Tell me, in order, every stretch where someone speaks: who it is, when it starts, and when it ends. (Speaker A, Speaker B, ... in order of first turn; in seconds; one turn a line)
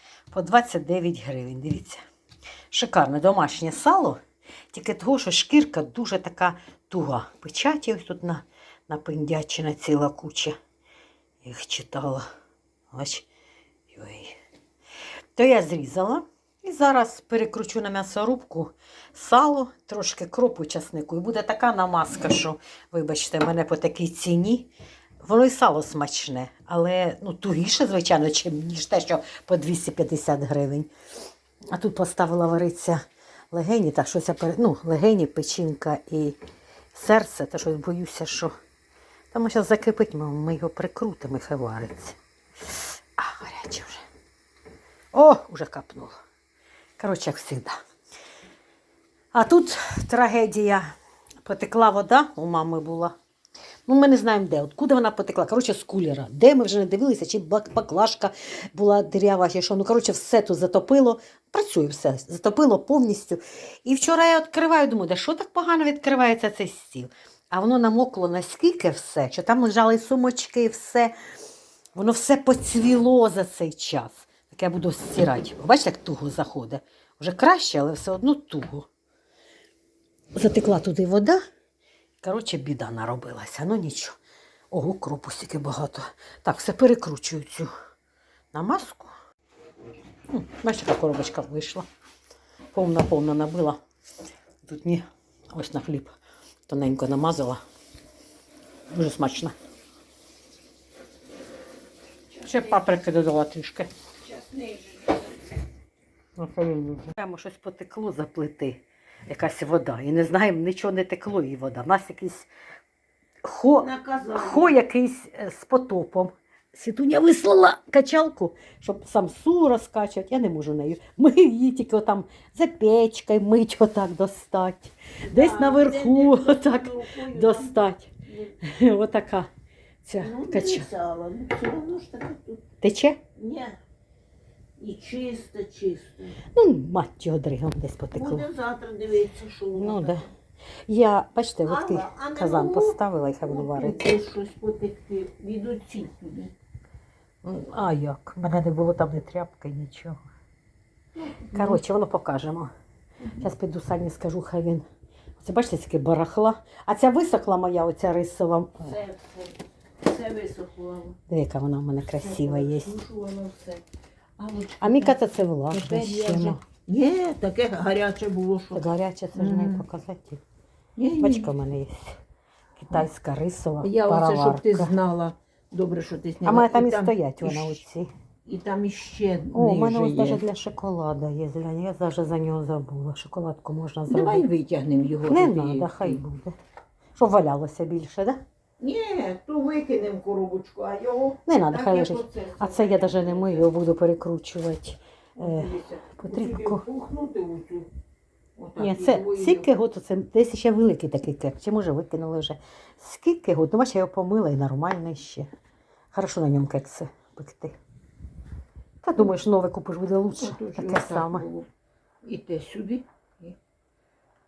Speaker A: 0.3-2.0
Speaker A: 2.7-4.2
Speaker A: 4.7-10.6
Speaker A: 11.4-12.2
Speaker A: 12.9-13.3
Speaker A: 13.9-14.4
Speaker A: 15.4-24.7
Speaker A: 25.2-30.9
Speaker A: 31.7-36.4
Speaker A: 36.9-38.5
Speaker A: 39.3-42.2
Speaker A: 43.2-44.0
Speaker A: 45.1-46.2
Speaker A: 47.0-47.8
Speaker A: 49.3-50.9
Speaker A: 51.4-53.1
Speaker A: 53.9-71.1
Speaker A: 72.0-78.9
Speaker A: 80.3-81.4
Speaker A: 82.2-84.2
Speaker A: 84.7-87.7
Speaker A: 88.5-89.1
Speaker A: 90.3-91.9
Speaker A: 92.7-93.8
Speaker A: 94.7-96.2
Speaker A: 96.7-97.6
Speaker A: 98.9-99.5
Speaker A: 102.4-103.9
Speaker B: 104.2-105.3
Speaker A: 106.4-112.5
Speaker A: 113.4-129.5
Speaker B: 113.8-114.8
Speaker B: 125.2-127.8
Speaker B: 128.3-128.6
Speaker A: 130.1-130.9
Speaker B: 130.2-132.7
Speaker A: 132.8-133.2
Speaker B: 133.4-133.8
Speaker B: 134.8-136.4
Speaker A: 136.4-138.5
Speaker B: 138.1-140.3
Speaker A: 139.8-140.3
Speaker A: 140.9-144.1
Speaker B: 141.7-146.5
Speaker A: 147.4-150.2
Speaker B: 151.2-151.8
Speaker A: 151.5-152.7
Speaker A: 153.4-154.8
Speaker A: 155.4-158.9
Speaker B: 158.8-161.2
Speaker A: 161.3-162.9
Speaker B: 162.1-163.8
Speaker B: 164.4-169.9
Speaker A: 164.8-166.6
Speaker A: 168.7-170.4
Speaker B: 171.0-171.5
Speaker A: 171.2-172.2
Speaker A: 172.8-174.9
Speaker B: 173.8-177.8
Speaker A: 176.4-178.1
Speaker B: 178.5-180.4
Speaker A: 179.5-184.5
Speaker B: 184.1-186.2
Speaker A: 185.3-186.5
Speaker A: 187.2-188.4
Speaker B: 188.8-193.7
Speaker A: 191.5-196.8
Speaker B: 195.4-197.9
Speaker B: 198.6-199.7
Speaker A: 198.8-205.5
Speaker A: 206.1-207.8
Speaker A: 209.0-211.5
Speaker B: 210.4-211.7
Speaker B: 212.2-213.6